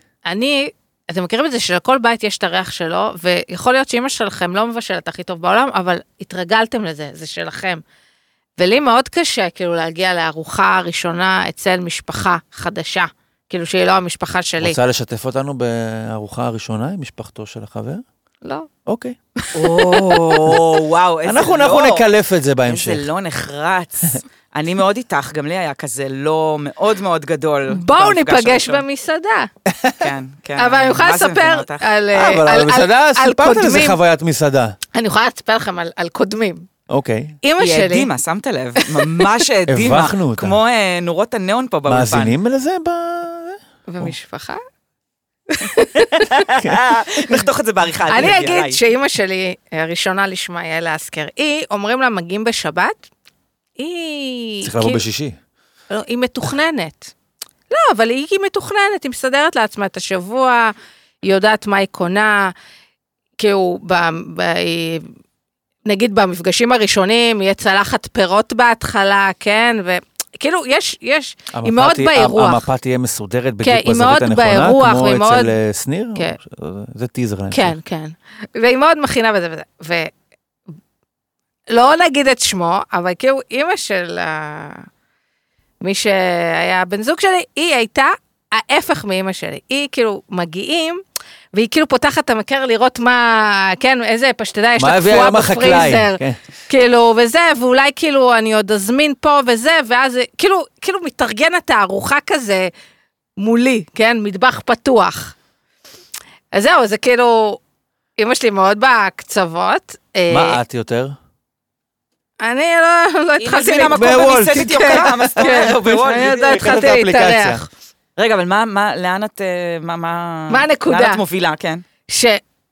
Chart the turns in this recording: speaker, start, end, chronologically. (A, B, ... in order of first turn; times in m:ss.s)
0:00.2-0:07.8 A
0:08.6-0:14.8 A
0:14.6-0:18.0 B
0:18.4-0:18.7 A
0:18.8-0:19.2 B
0:19.4-0:20.4 A
0:19.5-0:22.1 C
0:21.2-0:23.0 B
0:22.6-0:28.8 C
0:27.7-0:29.5 A
0:29.7-0:30.0 B
0:30.0-0:31.9 C
0:30.6-0:34.0 A
0:32.1-0:34.8 B
0:34.9-0:36.7 A
0:36.9-0:37.4 B
0:37.4-0:38.1 A
0:37.6-0:42.4 C
0:38.8-0:39.2 A
0:39.7-0:40.6 B
0:41.9-0:44.1 B
0:43.9-0:44.6 A
0:45.5-0:46.5 A
0:46.1-0:48.8 C
0:48.1-0:53.0 A
0:53.8-0:55.0 A
0:54.6-0:55.4 B
0:55.9-0:57.1 A
0:57.7-1:02.5 A
1:03.4-1:05.1 A
1:05.8-1:12.7 A
1:11.5-1:17.7 B
1:13.6-1:15.5 A
1:17.5-1:20.1 A
1:21.7-1:24.9 A
1:25.8-1:31.0 A
1:31.5-1:42.7 A
1:34.8-1:36.4 B
1:43.4-1:45.3 A
1:46.5-1:47.6 A
1:48.2-1:50.6 A
1:50.3-1:51.2 B
1:52.4-1:57.7 A
1:53.4-1:56.9 C
1:53.9-1:57.6 B
1:58.2-2:01.8 C
2:00.5-2:01.2 A
2:02.1-2:02.4 A